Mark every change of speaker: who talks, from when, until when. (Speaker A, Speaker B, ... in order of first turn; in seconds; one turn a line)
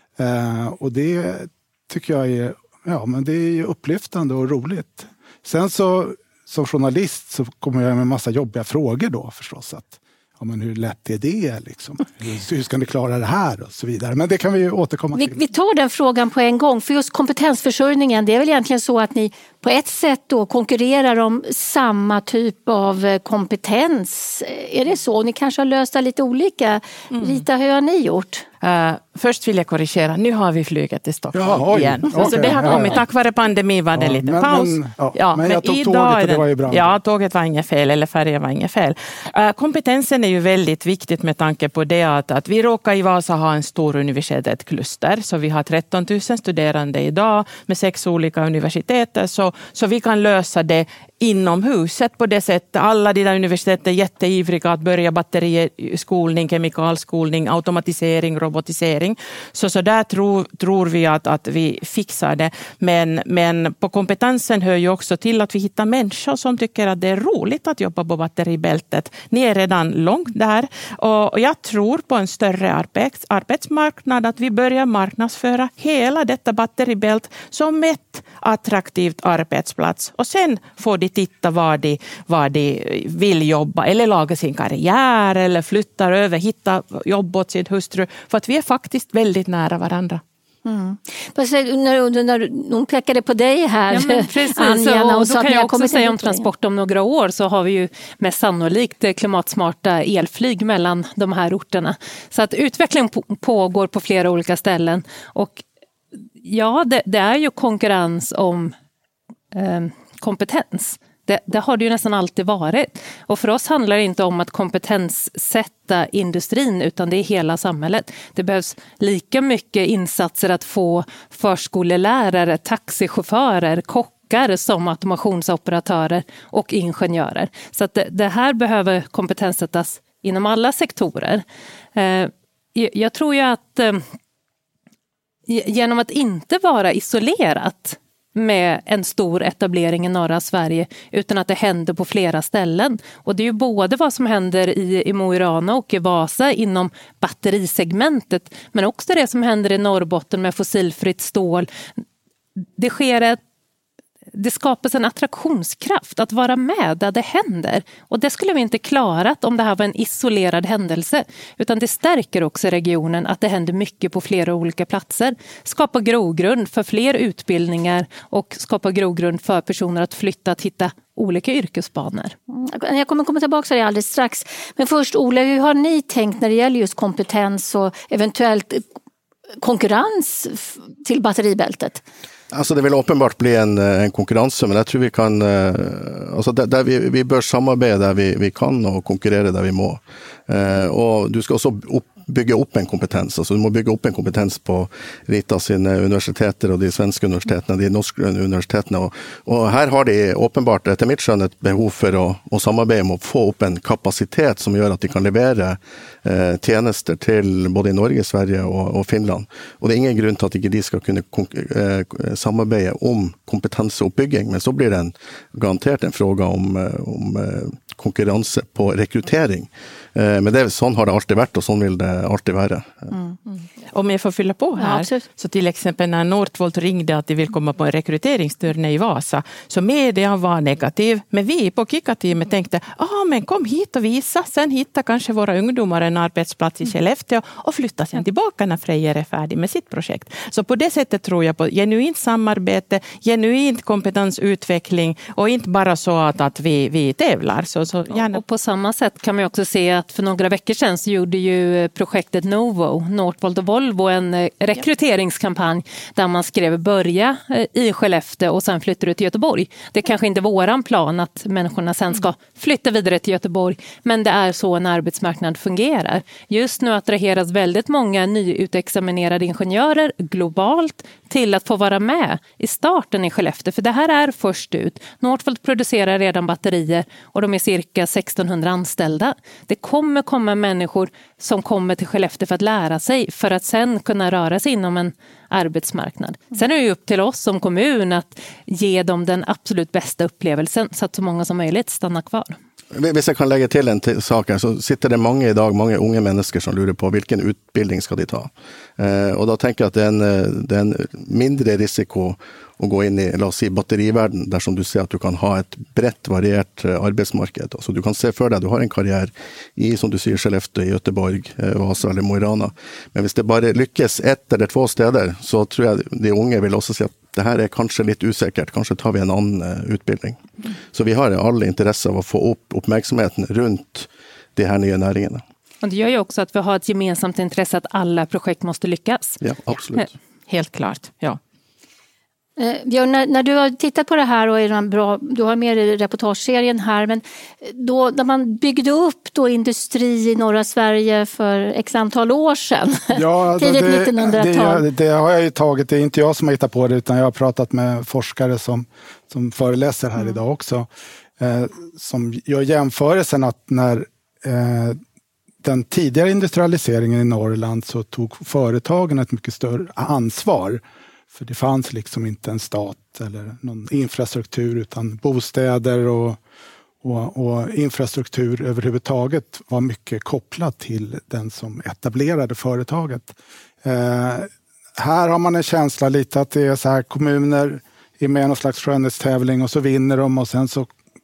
Speaker A: 0.2-15.4
Speaker B: 15.2-28.4
Speaker C: 27.1-27.4
Speaker C: 28.6-90.2
Speaker A: 31.3-33.0
Speaker A: 33.9-36.9
Speaker B: 90.6-96.5
Speaker D: 93.9-105.6
Speaker D: 106.4-108.7
Speaker D: 109.5-134.0
Speaker D: 135.5-151.7
Speaker D: 152.8-153.4
Speaker D: 154.3-172.3
Speaker B: 172.5-178.8
Speaker B: 179.6-182.0
Speaker E: 182.5-223.1
Speaker C: 223.9-248.4
Speaker B: 224.8-225.2
Speaker D: 248.1-292.6
Speaker E: 292.9-325.4
Speaker D: 325.8-329.4
Speaker E: 329.4-330.1
Speaker C: 330.5-331.4
Speaker B: 332.6-344.8
Speaker A: 343.1-350.9
Speaker A: 351.4-355.0
Speaker A: 355.6-360.8
Speaker A: 361.3-366.4
Speaker A: 367.0-380.9